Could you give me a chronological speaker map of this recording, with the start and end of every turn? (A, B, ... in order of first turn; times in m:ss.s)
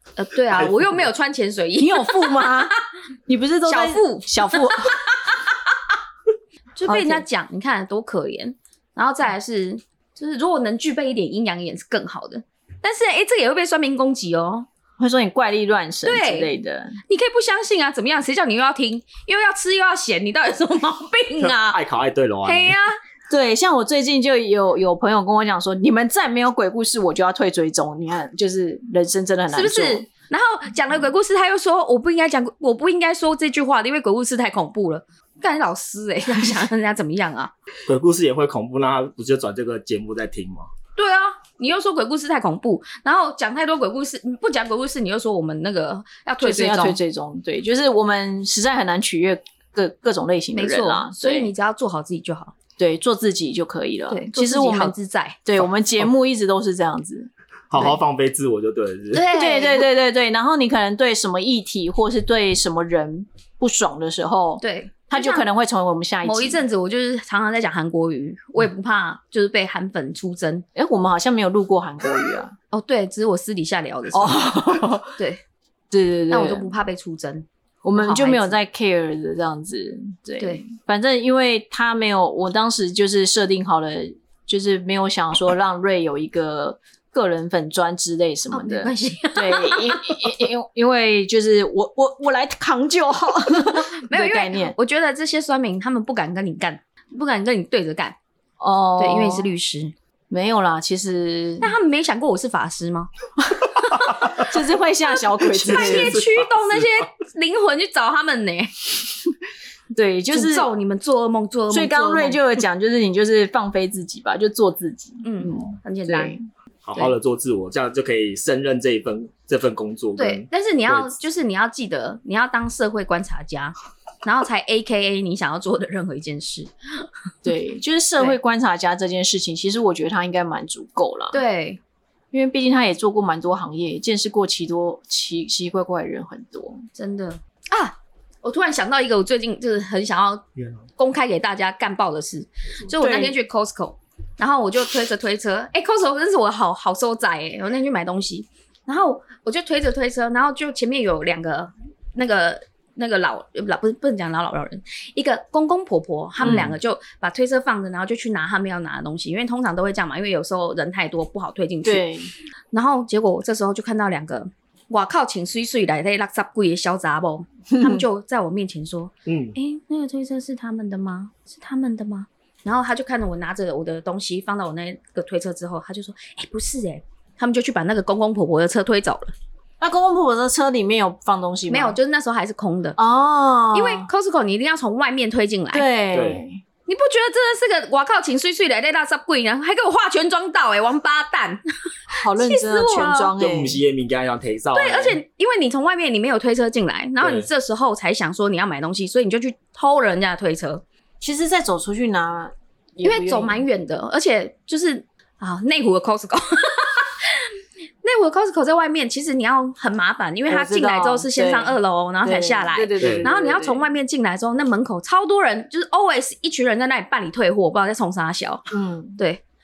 0:00.2-0:02.7 A
0:01.8-0:02.7 B
0:03.3-0:04.9 B
0:03.7-0:05.5 A
0:06.8-0:14.7 A
0:06.9-0:07.2 B
0:15.0-0:17.0 B
0:16.0-0:16.5 A
0:17.1-0:21.8 A
0:21.4-0:22.7 C
0:22.4-0:23.0 A
0:23.3-0:30.0 B
0:29.5-0:37.5 A
0:37.9-0:40.7 C
0:41.0-0:47.0 A
0:46.4-0:51.5 B
0:50.5-0:52.5 A
0:52.8-0:54.9 B
0:54.1-0:55.4 A
0:55.4-0:57.3 B
0:57.7-0:59.3 C
0:59.1-0:59.9 A
0:59.3-1:06.6 B
1:04.6-1:05.4 A
1:06.2-1:10.6 A
1:10.7-1:12.5 B
1:12.7-1:14.5 A
1:14.1-1:15.1 B
1:15.2-1:15.4 A
1:15.9-1:16.7 B
1:16.3-1:18.6 A
1:17.8-1:34.7 B
1:28.5-1:30.4 A
1:33.6-1:38.2 A
1:38.6-1:39.4 B
1:39.0-1:39.9 A
1:40.3-1:41.7 B
1:41.6-1:43.1 A
1:43.9-1:44.1 A
1:44.1-1:44.4 C
1:44.3-1:46.2 B
1:45.5-1:47.0 C
1:45.6-1:49.0 A
1:49.9-1:50.7 B
1:50.3-1:52.4 A
1:51.7-1:56.4 B
1:55.2-1:56.4 A
1:56.8-2:01.1 C
2:00.2-2:07.1 A
2:07.4-2:11.4 B
2:11.3-2:11.8 A
2:12.3-2:16.9 B
2:17.0-2:20.4 A
2:21.0-2:42.0 A
2:23.0-2:23.4 B
2:36.4-2:36.8 C
2:41.8-2:42.3 B
2:42.7-2:59.3 A
2:47.7-2:48.0 B
2:49.2-2:49.5 C
2:59.8-3:02.0 B
3:01.7-3:03.0 A
3:03.0-3:04.1 B
3:03.7-3:05.8 A
3:05.7-3:06.6 B
3:06.1-3:06.4 C
3:06.9-3:11.6 A
3:12.1-3:13.8 B
3:12.4-3:13.3 A
3:13.4-3:15.2 C
3:14.7-3:20.8 A
3:17.2-3:17.5 C
3:21.2-3:23.6 B
3:23.0-3:27.5 A
3:28.0-3:38.7 A
3:30.5-3:33.8 B
3:33.0-3:33.3 C
3:38.7-3:39.2 B